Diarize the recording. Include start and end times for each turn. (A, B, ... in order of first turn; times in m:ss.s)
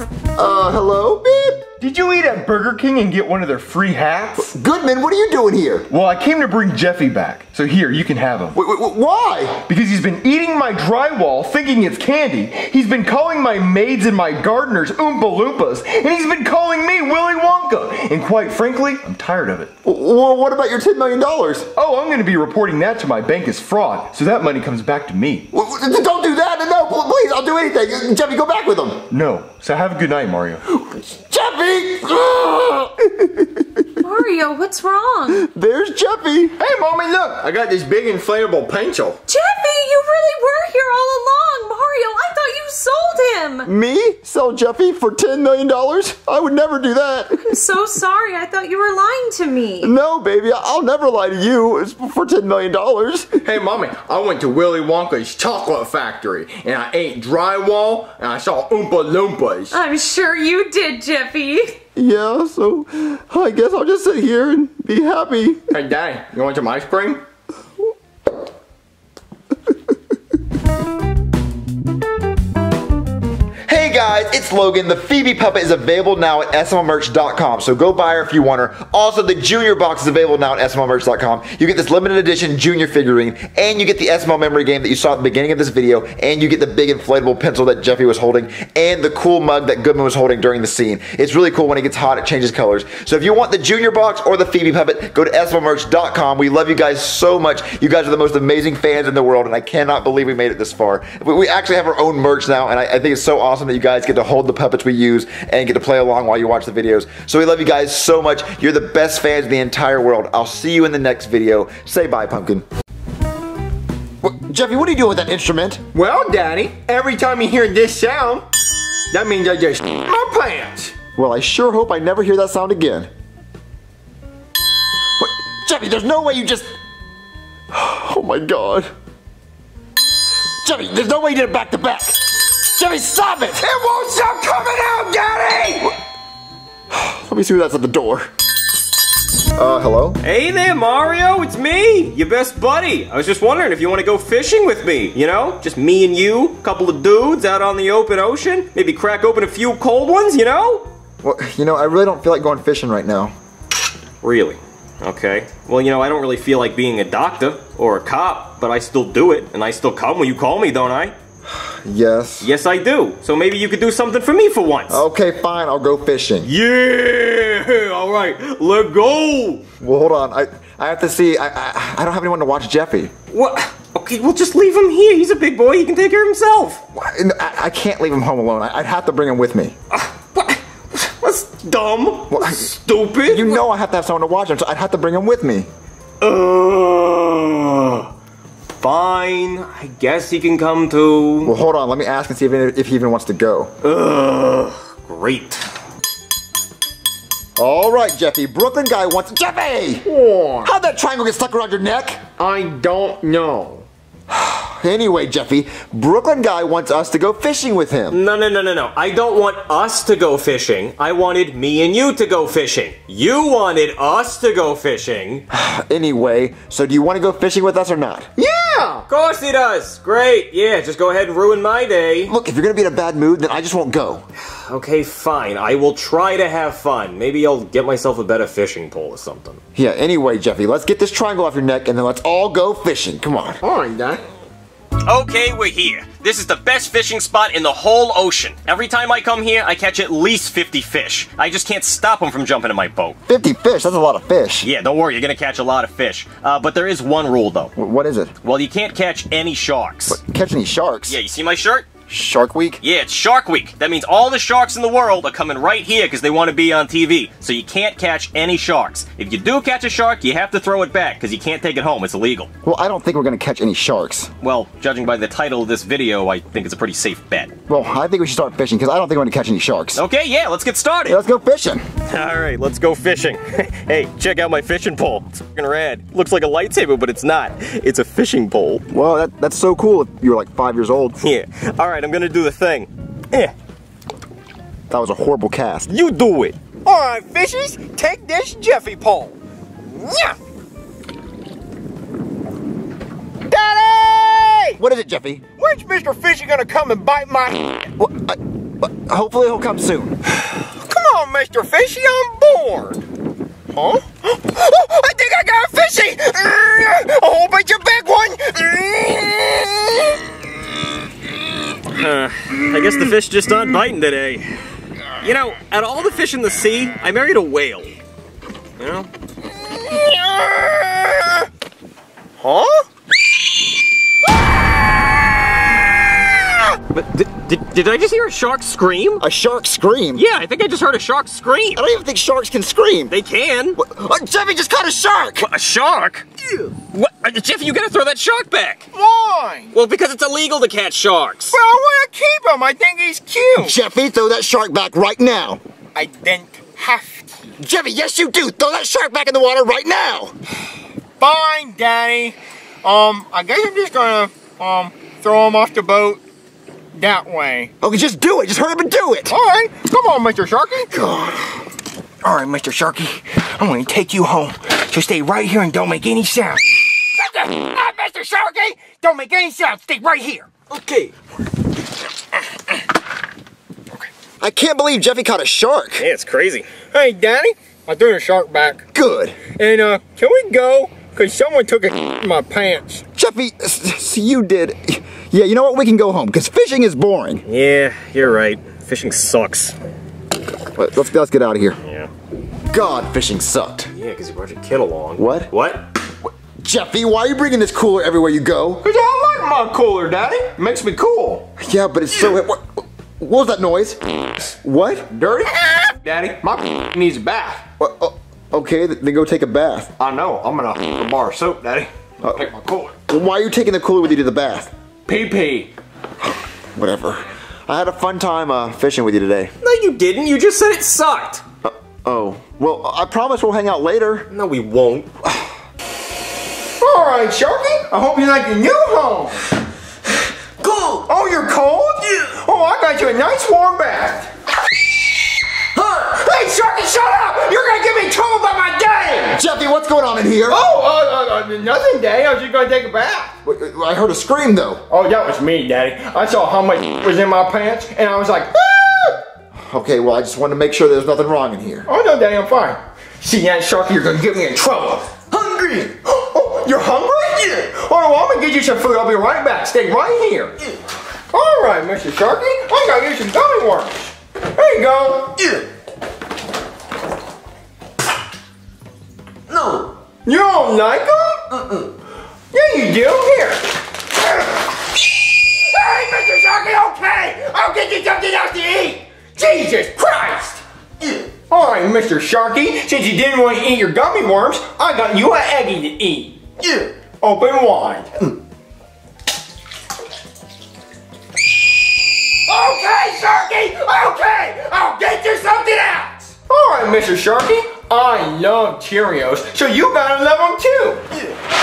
0:00.3-0:01.7 A
0:01.8-0:04.5 B
0:04.4-0:05.9 A
0:05.9-0:08.6 B
0:08.5-0:09.6 A
0:09.6-0:19.7 B
0:19.8-0:21.7 A
0:21.7-0:25.5 B
0:25.5-0:29.1 A
0:29.1-0:30.6 B
0:30.8-0:33.8 A
0:34.0-0:35.5 C
0:35.3-0:36.6 A
0:36.6-0:39.2 D
0:39.3-0:43.7 C
0:43.6-0:47.6 A
0:47.5-0:49.9 C
0:49.8-0:53.4 A
0:53.4-0:59.7 D
0:59.7-1:01.8 C
1:02.0-1:05.6 A
1:05.7-1:07.2 D
1:13.7-1:52.6 A
1:54.2-1:55.8 A
1:55.9-1:58.4 D
1:59.1-2:01.0 D
2:01.1-2:03.1 A
2:05.2-2:06.7 A
2:07.7-2:08.9 A
2:10.6-2:13.6 A
2:13.7-2:15.9 D
2:16.9-2:18.3 A
2:19.6-2:20.2 A
2:20.2-2:30.9 E
2:31.2-2:33.3 A
2:34.2-2:41.1 E
2:41.5-2:42.5 A
2:42.4-2:45.0 E
2:44.9-2:46.5 A
2:46.4-2:49.6 E
2:49.8-2:53.1 A
2:53.3-2:56.8 E
2:56.9-2:59.7 A
2:59.9-3:03.6 E
3:02.3-3:02.7 A
3:03.2-3:05.7 A
3:06.2-3:08.1 E
3:08.8-3:11.5 E
3:11.4-3:13.7 A
3:13.8-3:15.6 E
3:17.6-3:20.1 A
3:20.0-3:20.7 D
3:20.6-3:22.2 A
3:22.4-3:23.8 D
3:24.3-3:28.2 A
3:28.1-3:35.4 E
3:35.5-3:38.3 A
3:38.4-3:39.0 D
3:39.1-3:42.3 E
3:42.3-3:44.2 A
3:44.5-3:49.6 E
3:49.7-3:53.6 A
3:53.6-3:54.2 D
3:55.0-4:03.2 E
4:03.3-4:04.7 A
4:04.6-4:07.7 E
4:07.8-4:08.3 A
4:08.4-4:10.2 E
4:10.1-4:11.2 A
4:11.1-4:11.9 E
4:12.1-4:12.8 A
4:12.8-4:22.5 E
4:22.6-4:24.3 A
4:24.4-4:27.5 E
4:27.7-4:30.0 A
4:29.9-4:31.2 E
4:31.1-4:31.8 A
4:32.1-4:38.8 E
4:38.9-4:41.2 A
4:41.2-4:43.5 E
4:44.9-4:45.9 A
4:45.9-4:46.6 E
4:46.8-4:50.4 D
4:53.5-4:54.8 D
4:54.8-4:55.4 A
4:55.6-4:57.9 D
4:58.0-5:00.2 A
5:00.4-5:03.0 D
5:03.7-5:10.2 D
5:11.9-5:14.6 E
5:15.2-5:17.9 E
5:18.8-5:19.1 E
5:20.0-5:20.4 D
5:22.4-5:22.8 E
5:26.7-5:29.2 E
5:29.2-5:30.2 A
5:30.1-5:31.8 E
5:31.7-5:33.1 A
5:33.1-5:33.8 E
5:33.8-5:35.5 A
5:35.4-5:36.2 E
5:36.4-5:36.7 D
5:36.9-5:38.9 E
5:38.9-5:39.7 D
5:39.7-5:41.6 E
5:41.5-5:43.8 D
5:43.6-5:45.6 A
5:45.9-5:47.3 D
5:47.6-5:50.3 A
5:51.2-5:56.2 D
5:56.9-5:57.7 D
5:57.8-5:59.4 A
5:59.3-6:01.1 D
6:00.9-6:01.6 A
6:02.2-6:10.5 D
6:10.7-6:11.1 E
6:14.4-6:16.1 A
6:16.0-6:16.7 E
6:16.9-6:18.8 D
6:18.9-6:19.4 A
6:19.6-6:23.0 D
6:23.1-6:27.4 A
6:27.4-6:29.7 E
6:30.8-6:31.8 A
6:32.7-6:33.9 A
6:33.9-6:35.8 E
6:35.2-6:35.5 A
6:36.2-6:38.8 A
6:38.8-6:41.5 D
6:41.6-6:45.1 A
6:45.1-6:47.6 D
6:47.8-6:49.9 A
6:50.0-6:52.9 D
6:52.2-6:52.5 A
6:53.1-6:54.7 A
6:55.0-6:55.7 D
6:56.7-6:59.5 A
6:59.6-7:01.4 E
7:01.6-7:04.3 A
7:04.3-7:05.1 E
7:06.8-7:09.5 D
7:10.6-7:11.0 F
7:11.0-7:14.3 D
7:15.7-7:19.4 D
7:19.3-7:20.6 A
7:20.5-7:23.3 D
7:23.4-7:24.8 A
7:24.9-7:29.2 D
7:29.5-7:31.9 A
7:31.8-7:35.2 D
7:35.3-7:35.8 F
7:35.8-7:40.5 D
7:41.3-7:45.4 D
7:45.4-7:45.6 F
7:49.5-7:49.9 F
7:50.2-7:51.5 D
7:51.5-7:51.8 F
7:52.5-7:53.6 D
7:55.5-8:00.6 D
8:01.4-8:08.3 D
8:12.4-8:21.0 D